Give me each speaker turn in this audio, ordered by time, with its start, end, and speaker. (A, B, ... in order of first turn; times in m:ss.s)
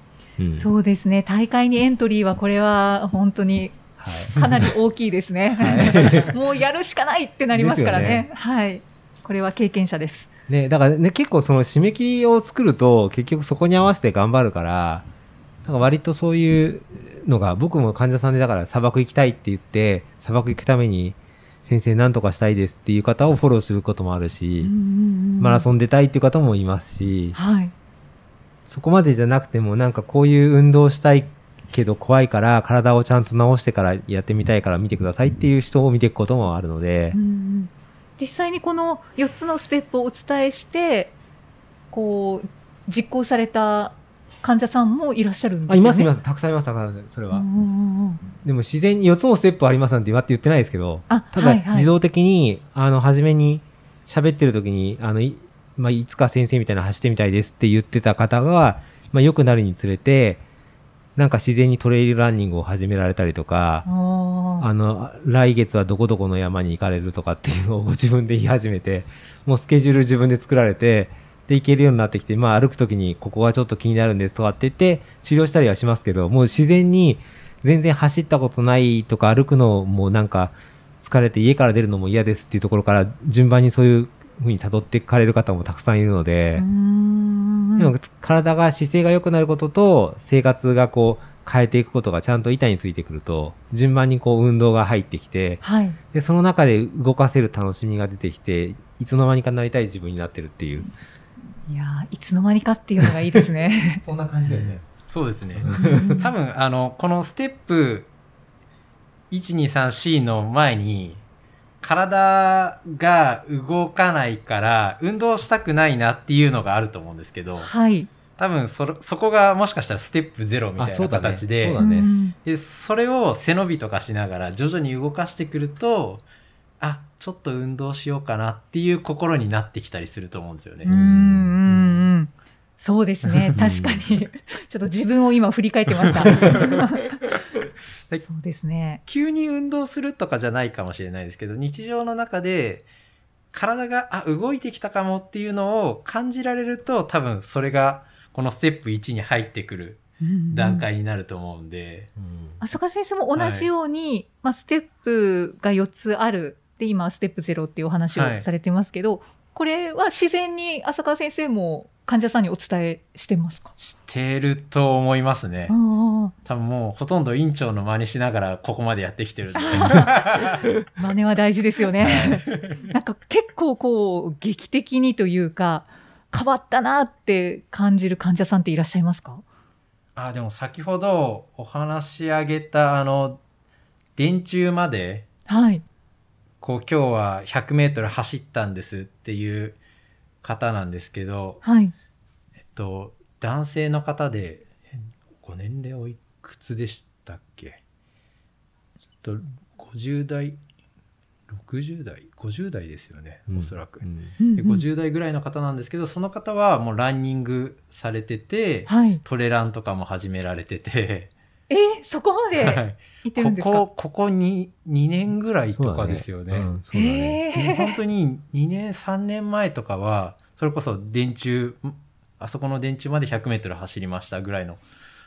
0:00.4-0:00.7 A
0:00.5-0:03.8 B
0:04.0-0:04.7 A
0:04.3-0:10.3 B
0:05.6-0:06.4 A
0:07.5-0:08.3 A
0:10.5-0:15.1 A
0:15.6-0:24.7 A
0:24.6-0:25.7 B
0:25.4-0:27.4 A
0:27.4-0:27.7 B
0:28.7-0:37.2 A
0:37.1-0:41.2 B
0:41.9-0:46.1 B
0:45.7-0:47.5 A
0:47.3-0:48.2 B
0:48.4-1:00.4 A
0:51.1-0:51.9 B
1:01.2-1:03.9 A
1:03.9-1:04.7 B
1:04.6-1:26.7 A
1:26.6-1:27.9 B
1:27.8-1:40.9 A
1:35.6-1:36.0 B
1:41.7-1:44.0 B
1:43.0-1:43.4 A
1:44.0-1:44.8 A
1:44.5-1:48.1 C
1:45.6-1:46.2 A
1:45.7-1:46.3 B
1:49.3-1:51.2 C
1:51.8-1:57.7 C
1:57.6-1:58.1 B
1:58.4-2:01.8 C
2:00.8-2:02.1 A
2:01.8-2:02.4 B
2:02.4-2:06.2 C
2:06.8-2:12.1 C
2:10.8-2:17.2 B
2:13.6-2:14.1 A
2:16.0-2:17.4 C
2:18.2-2:19.0 B
2:19.1-2:22.9 C
2:23.5-2:32.1 C
2:30.2-2:30.9 B
2:32.2-2:32.6 A
2:32.6-2:43.7 B
2:33.4-2:33.7 C
2:38.2-2:38.5 C
2:43.8-2:45.8 C
2:45.7-2:46.3 B
2:46.4-2:50.7 C
2:49.6-2:50.4 B
2:51.0-2:59.4 B
2:52.0-2:52.9 C
3:00.2-3:03.4 C
3:04.2-3:05.3 C
3:05.5-3:05.8 B
3:06.6-3:09.8 C
3:10.4-3:11.6 C
3:11.6-3:11.9 B
3:12.7-3:17.8 C
3:19.2-3:20.6 C
3:21.5-3:24.0 C
3:23.5-3:24.4 A
3:24.4-3:24.9 B
3:24.6-3:31.3 C
3:28.9-3:29.2 B
3:31.7-3:33.8 B
3:32.6-3:36.7 C
3:35.7-3:37.4 A
3:36.9-3:38.0 B
3:37.5-3:44.8 C